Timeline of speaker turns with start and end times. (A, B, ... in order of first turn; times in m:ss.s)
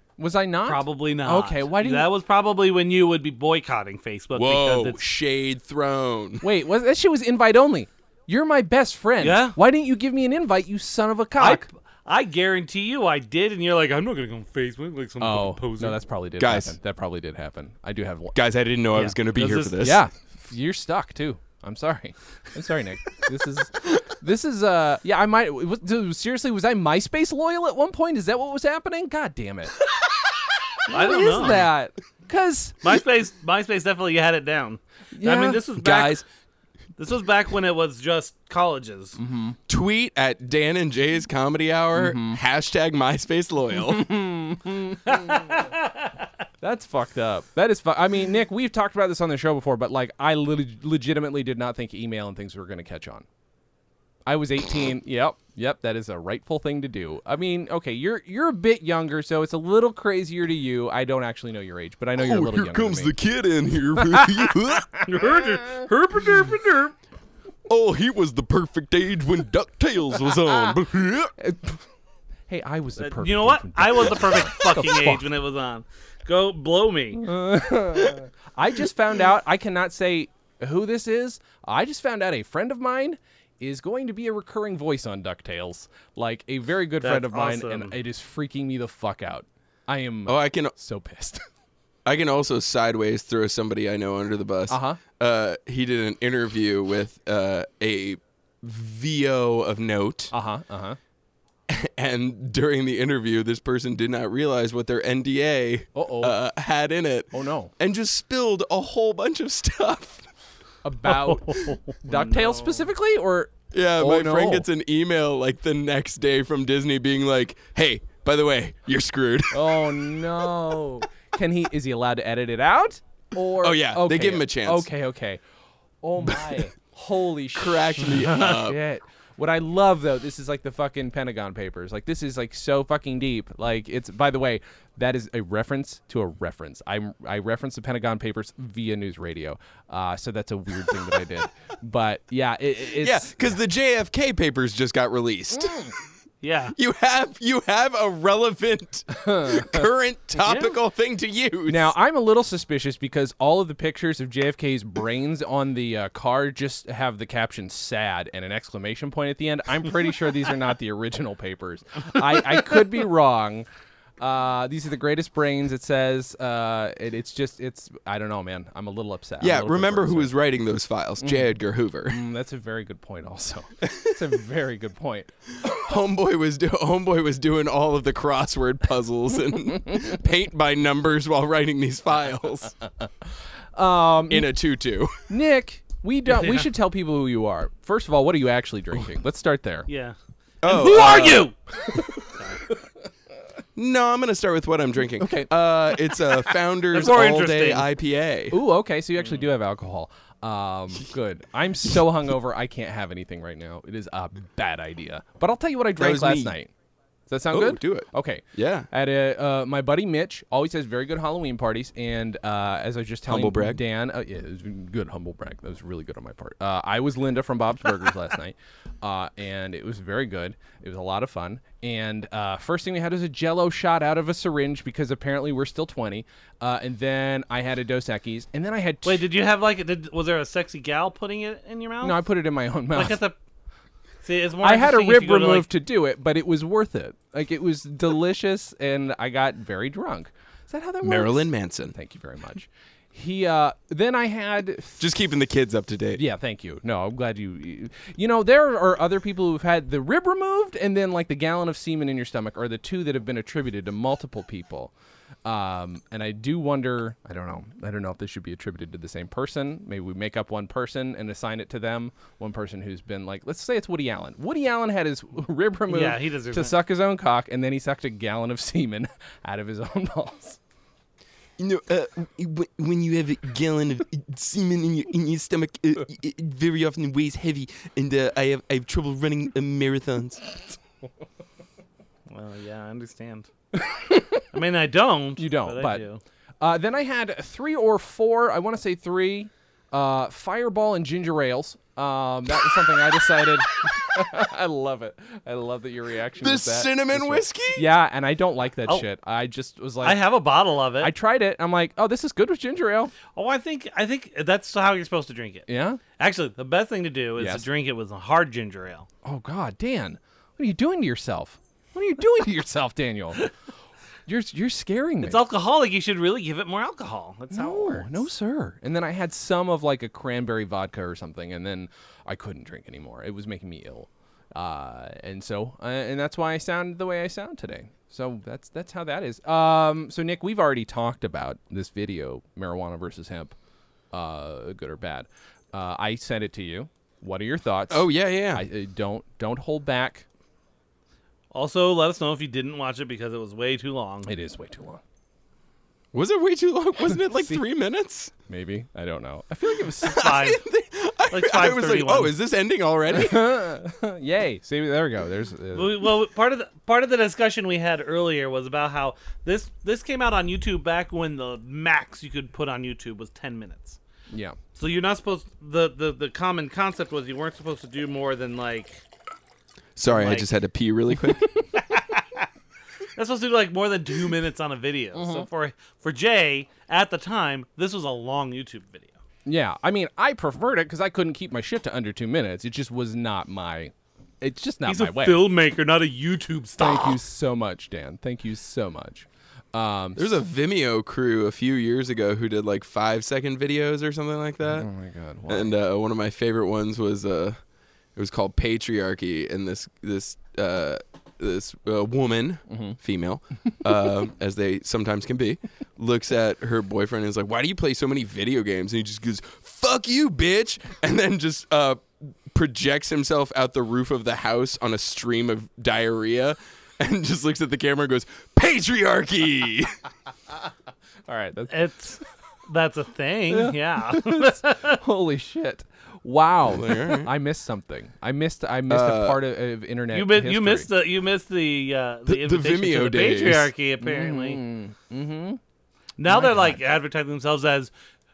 0:00.2-0:02.1 A
0:00.6-0:05.0 B
0:04.3-0:06.4 C
0:06.4-0:11.6 A
0:09.2-0:09.6 B
0:11.4-0:16.0 B
0:15.2-0:18.4 A
0:16.4-0:16.7 C
0:18.3-0:20.0 C
0:18.9-0:19.8 B
0:19.8-0:29.8 A
0:30.9-0:31.7 B
0:30.9-0:32.9 A
0:32.8-0:36.2 B
0:35.1-0:35.9 A
0:35.8-0:36.2 C
0:37.0-0:39.2 B
0:39.2-0:39.6 A
0:39.7-0:44.1 C
0:41.9-0:42.4 A
0:43.8-0:45.7 A
0:45.0-0:46.2 B
0:46.6-0:53.2 A
0:54.2-1:03.1 A
1:02.2-1:05.0 C
1:04.0-1:04.5 A
1:05.0-1:06.9 B
1:07.7-1:11.3 C
1:11.4-1:11.8 A
1:12.5-1:15.2 A
1:13.0-1:17.3 B
1:17.1-1:31.4 A
1:27.0-1:27.9 B
1:30.3-1:30.7 C
1:32.0-1:40.3 C
1:34.7-1:35.0 A
1:40.3-1:41.0 A
1:41.7-1:50.3 C
1:45.9-1:46.4 A
1:47.3-1:47.7 A
1:50.8-1:54.7 A
1:51.0-1:52.9 B
1:53.7-2:00.2 C
1:59.5-2:05.4 A
2:03.6-2:04.9 C
2:06.0-2:23.5 A
2:06.3-2:06.6 C
2:07.5-2:08.8 C
2:23.0-2:25.9 C
2:25.5-2:25.9 A
2:26.4-2:26.7 B
2:26.8-2:31.9 C
2:29.1-2:29.9 A
2:30.4-2:30.8 B
2:31.7-2:43.7 A
2:44.2-2:50.3 A
2:49.4-2:52.2 C
2:51.2-2:51.5 A
2:52.1-2:55.3 A
2:55.6-3:02.7 C
3:03.7-3:04.5 A
3:04.3-3:05.2 C
3:05.3-3:09.9 A
3:06.3-3:06.7 B
3:09.9-3:11.6 B
3:10.6-3:11.5 C
3:11.9-3:12.2 A
3:12.2-3:12.6 B
3:13.8-3:18.6 C
3:15.2-3:15.5 A
3:16.9-3:17.9 B
3:18.5-3:26.7 A
3:26.0-3:26.5 C
3:27.3-3:49.3 A
3:27.5-3:28.9 C
3:33.3-3:33.8 C
3:49.0-3:52.2 B
3:52.0-3:53.2 A
3:52.9-3:53.4 B
3:54.2-3:55.7 B
3:54.6-4:05.0 A
4:01.0-4:01.9 C
4:05.0-4:06.2 C
4:06.1-4:14.9 A
4:15.4-4:30.6 A
4:25.9-4:26.7 B
4:31.6-4:40.4 C
4:42.3-4:43.5 B
4:43.7-4:44.4 A
4:44.5-4:46.2 B
4:45.4-4:46.0 A
4:46.6-5:00.3 A
4:56.4-4:57.9 C
5:00.0-5:01.1 B
5:01.0-5:03.1 A
5:03.3-5:05.7 B
5:05.7-5:06.0 A
5:06.2-5:09.1 B
5:07.4-5:07.6 A
5:09.2-5:13.5 A
5:14.3-5:15.4 A
5:15.2-5:18.3 B
5:17.5-5:33.5 A
5:34.1-5:40.2 A
5:37.9-5:38.6 C
5:41.5-5:44.3 B
5:44.2-5:45.0 A
5:46.1-5:48.3 C
5:47.3-5:47.6 A
5:48.5-5:50.4 A
5:50.0-5:50.6 B
5:50.0-5:53.4 C
5:51.3-5:52.3 B
5:53.1-5:56.0 A
5:55.7-6:04.0 B
6:04.3-6:04.6 A
6:04.7-6:09.0 B
6:10.0-6:11.5 C
6:10.0-6:10.5 B
6:11.7-6:12.5 B
6:13.2-6:19.1 B
6:15.1-6:15.5 A
6:19.4-6:25.4 A
6:24.8-6:27.2 B
6:26.8-6:30.4 A
6:30.2-6:34.9 C
6:34.6-6:35.7 A
6:35.5-6:37.6 C
6:38.2-7:00.0 C
6:42.7-6:43.0 A
7:01.3-7:01.9 A
7:01.7-7:05.0 B
7:03.5-7:10.9 A
7:06.7-7:07.3 C
7:08.9-7:09.4 C
7:10.1-7:14.6 B
7:12.3-7:13.7 C
7:14.0-7:15.6 A
7:16.2-7:17.9 B
7:16.3-7:16.8 A